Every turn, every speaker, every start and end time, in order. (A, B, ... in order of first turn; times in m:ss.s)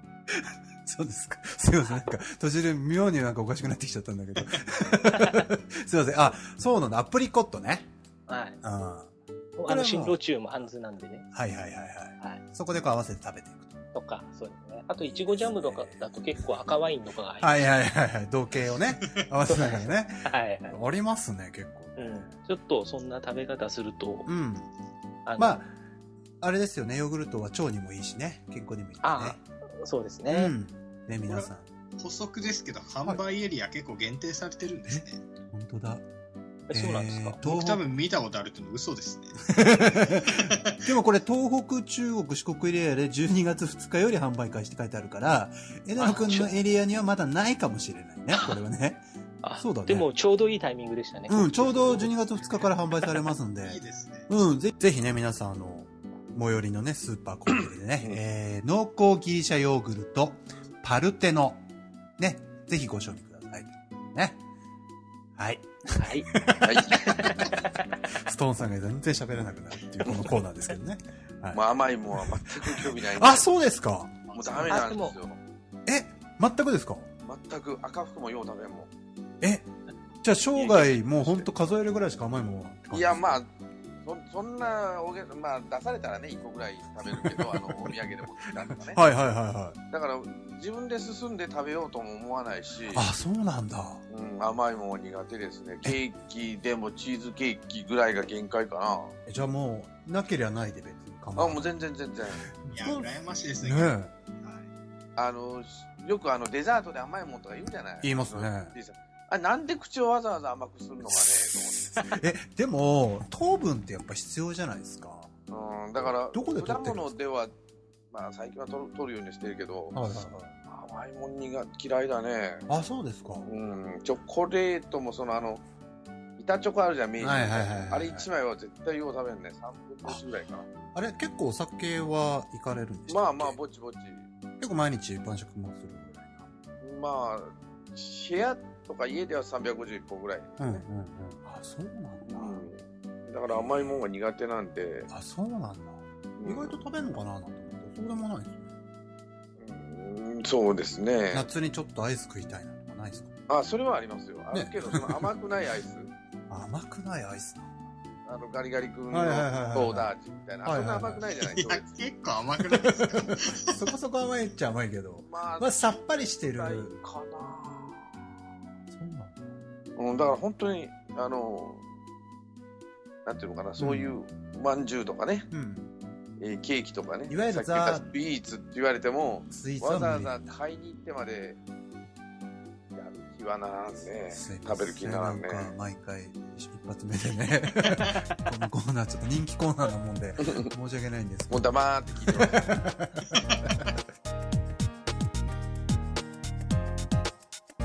0:00.8-0:07.9 A
0:08.3-0:08.6 B
0:08.6-0:09.1 A
0:09.6-0:11.3 B
0:09.6-0:10.2 A
0:11.3-0:13.8 A
0:13.9-0:17.7 B
0:15.0-0:16.7 A
0:17.4-0:22.3 A
0:19.5-0:20.8 B
0:22.0-0:24.3 B
0:24.2-0:24.7 A
0:25.2-0:25.6 B
0:25.4-0:25.7 A
0:26.4-0:29.4 A
0:29.0-0:30.5 B
0:30.3-0:31.7 A
0:32.0-0:35.2 C
0:34.9-0:36.0 A
0:36.7-0:37.4 B
0:36.7-0:37.8 A
0:37.4-0:40.8 C
0:39.5-0:49.0 A
0:46.0-0:46.6 B
0:49.4-0:52.1 B
0:49.6-0:50.1 A
0:51.3-1:01.6 A
0:53.6-0:54.3 C
1:02.2-1:04.4 A
1:05.4-1:07.5 A
1:06.0-1:06.3 B
1:06.6-1:07.1 D
1:08.1-1:11.6 A
1:10.0-1:10.3 D
1:11.5-1:13.5 D
1:12.1-1:14.2 A
1:14.3-1:14.9 C
1:14.3-1:15.4 D
1:14.7-1:15.2 B
1:15.9-1:17.1 A
1:17.2-1:18.9 D
1:19.4-1:19.7 A
1:20.2-1:23.4 A
1:20.5-1:21.6 D
1:22.9-1:23.5 D
1:24.0-1:29.0 D
1:27.0-1:28.0 A
1:28.6-1:29.8 A
1:29.9-1:33.1 D
1:32.9-1:34.0 A
1:34.1-1:39.1 D
1:39.2-1:41.7 A
1:41.4-1:42.5 D
1:42.5-1:44.1 A
1:42.7-1:44.7 C
1:45.2-1:52.1 D
1:48.0-1:48.7 A
1:52.0-1:55.3 A
1:55.5-1:57.5 D
1:56.3-1:57.1 A
1:58.1-2:00.0 D
1:59.9-2:00.5 A
2:00.7-2:02.6 D
2:02.7-2:03.5 A
2:03.4-2:05.6 D
2:06.4-2:10.7 D
2:07.2-2:08.3 A
2:10.9-2:13.6 A
2:13.1-2:14.2 D
2:14.6-2:16.4 A
2:16.8-2:20.8 D
2:20.6-2:22.7 A
2:22.3-2:25.1 D
2:23.5-2:24.0 A
2:25.1-2:28.6 A
2:26.4-2:26.8 D
2:29.6-2:31.5 D
2:31.3-2:33.3 A
2:33.5-2:36.1 D
2:34.5-2:35.1 A
2:36.5-2:37.8 A
2:38.3-2:42.0 D
2:39.1-2:40.1 A
2:40.6-2:41.2 A
2:41.4-2:43.7 C
2:42.7-2:47.0 A
2:45.2-2:48.1 D
2:48.9-2:49.4 A
2:50.0-2:51.8 D
2:53.2-2:55.5 D
2:53.8-2:54.2 A
2:55.5-2:55.9 A
2:56.4-3:01.6 D
2:57.3-2:58.0 A
2:59.5-3:00.6 A
3:02.9-3:05.7 D
3:04.3-3:11.7 A
3:11.5-3:12.6 D
3:12.3-3:14.0 A